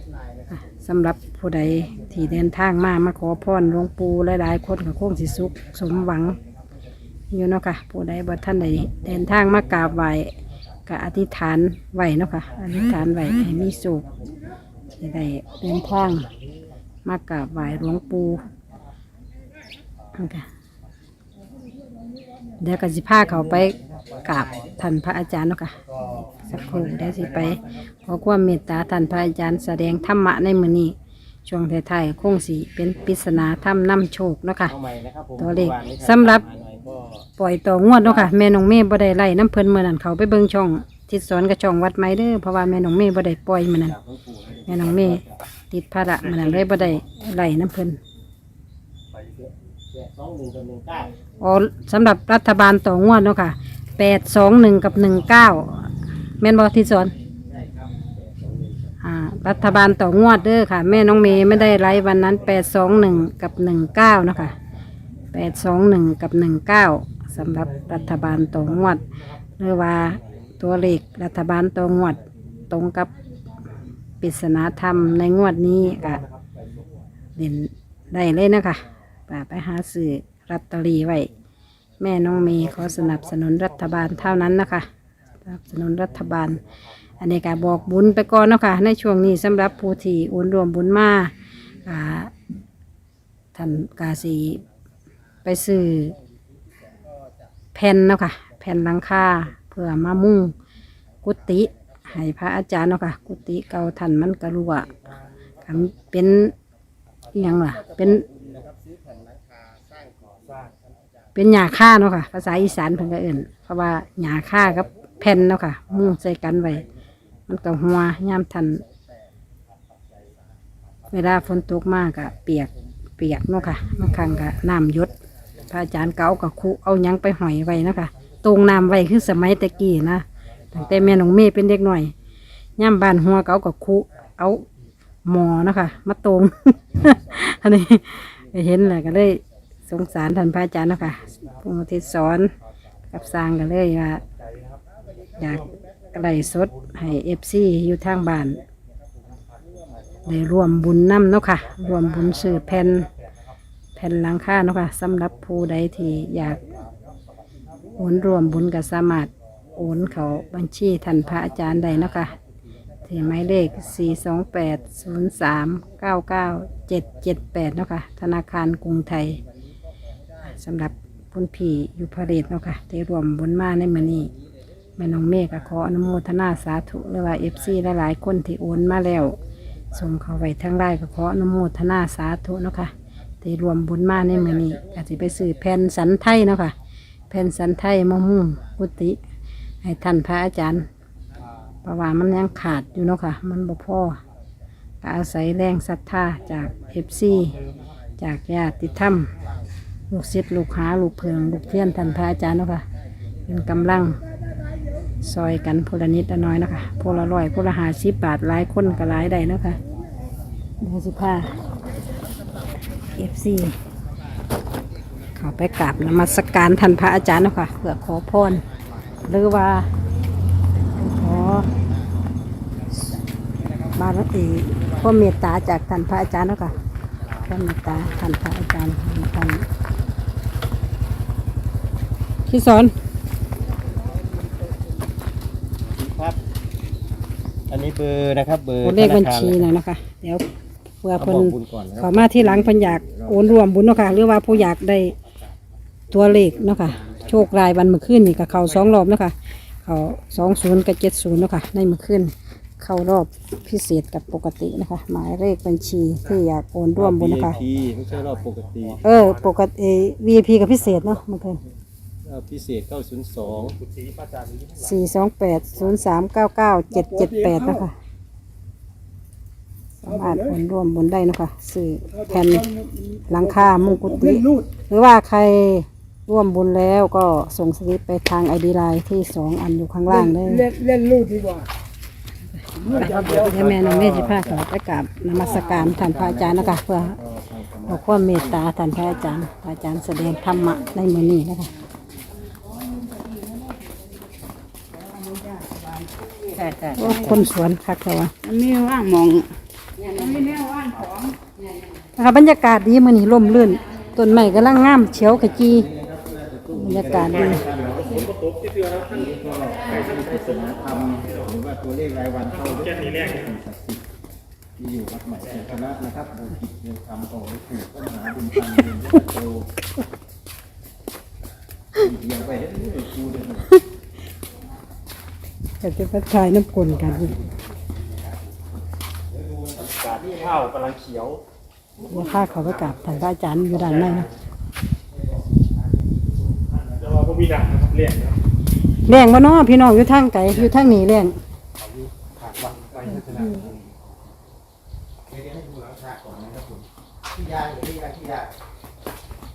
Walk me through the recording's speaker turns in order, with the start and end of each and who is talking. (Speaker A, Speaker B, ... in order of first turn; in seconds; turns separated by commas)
Speaker A: 0.6-6.4, Speaker A: 7.3-10.3, Speaker A: 10.9-14.1, Speaker A: 15.0-16.3, Speaker A: 17.1-18.4, Speaker A: 20.2-20.5, Speaker A: 22.6-25.8, Speaker B: 23.6-24.6, Speaker B: 26.1-27.6, Speaker A: 26.5-30.9, Speaker A: 31.5-34.7, Speaker C: 34.6-37.3, Speaker A: 35.4-36.4, Speaker A: 37.4-43.9, Speaker C: 38.0-38.3, Speaker C: 43.8-45.4, Speaker A: 44.7-48.0, Speaker B: 46.2-47.0, Speaker B: 49.1-49.5, Speaker C: 49.9-51.1, Speaker A: 51.4-55.9, Speaker A: 56.4-57.1, Speaker C: 57.5-58.6, Speaker A: 59.0-64.6, Speaker B: 61.5-61.8, Speaker A: 65.3-69.0, Speaker B: 67.7-69.5, Speaker A: 69.6-73.1, Speaker A: 74.2-76.2, Speaker B: 75.8-76.8, Speaker A: 77.4-81.3, Speaker A: 82.0-84.9, Speaker B: 82.4-84.6, Speaker A: 85.4-86.6, Speaker B: 86.2-86.6, Speaker A: 87.2-92.3, Speaker A: 93.5-94.6, Speaker A: 95.5-96.2, Speaker A: 97.8-100.5, Speaker A: 101.2-105.0, Speaker A: 105.7-106.5, Speaker A: 107.3-108.2, Speaker C: 108.2-109.2, Speaker B: 110.4-110.7, Speaker A: 111.3-116.9, Speaker A: 117.5-118.8, Speaker A: 121.1-125.1, Speaker A: 125.7-132.1, Speaker B: 130.8-131.0, Speaker A: 132.8-134.7, Speaker A: 135.2-142.5, Speaker A: 143.1-144.2, Speaker B: 144.3-145.7, Speaker A: 145.4-148.6, Speaker B: 146.6-146.9, Speaker B: 149.5-149.8, Speaker A: 150.3-153.1, Speaker B: 151.7-153.1, Speaker A: 154.0-156.6, Speaker A: 158.0-162.3, Speaker A: 163.1-169.4, Speaker A: 170.4-174.3, Speaker A: 175.0-179.4, Speaker A: 179.9-186.8, Speaker A: 187.3-189.2, Speaker A: 189.8-190.9, Speaker A: 191.8-194.2, Speaker A: 195.0-197.6, Speaker B: 197.5-197.8, Speaker A: 198.2-199.3, Speaker A: 200.1-202.9, Speaker A: 203.5-204.2, Speaker A: 205.2-209.8, Speaker A: 210.8-211.6, Speaker A: 213.2-213.8, Speaker A: 215.4-218.6, Speaker A: 219.2-219.9, Speaker A: 220.9-221.7, Speaker A: 224.0-226.8, Speaker A: 227.5-229.7, Speaker A: 232.5-232.9, Speaker C: 235.8-236.4, Speaker C: 237.7-239.7, Speaker A: 238.8-240.4, Speaker A: 241.0-245.2, Speaker C: 241.2-243.6, Speaker A: 246.1-257.6, Speaker C: 246.6-247.3, Speaker C: 257.0-259.0, Speaker B: 257.9-259.6, Speaker A: 259.0-261.6, Speaker C: 262.2-263.8, Speaker B: 263.4-265.2, Speaker A: 264.8-267.9, Speaker D: 266.9-267.9, Speaker A: 270.0-272.7, Speaker D: 270.1-270.6, Speaker D: 272.1-274.7, Speaker A: 273.3-280.7, Speaker D: 280.1-281.7, Speaker A: 282.6-287.2, Speaker D: 282.8-283.5, Speaker C: 282.9-284.6, Speaker C: 285.4-288.7, Speaker A: 287.9-291.7, Speaker E: 295.0-297.5, Speaker A: 297.0-298.3, Speaker E: 298.4-301.6, Speaker A: 302.2-305.9, Speaker C: 304.3-308.3, Speaker A: 306.7-307.6, Speaker B: 307.1-311.5, Speaker C: 309.0-314.0, Speaker B: 312.5-313.5, Speaker C: 314.8-319.7, Speaker C: 321.9-323.8, Speaker A: 325.8-327.3, Speaker C: 327.0-327.6, Speaker C: 329.3-330.7, Speaker B: 329.8-331.4, Speaker A: 332.0-334.3, Speaker C: 332.0-332.9, Speaker C: 335.6-336.1, Speaker C: 336.6-337.3, Speaker B: 336.9-338.4, Speaker A: 339.1-341.4, Speaker B: 341.8-343.6, Speaker C: 342.9-344.0, Speaker C: 345.3-348.5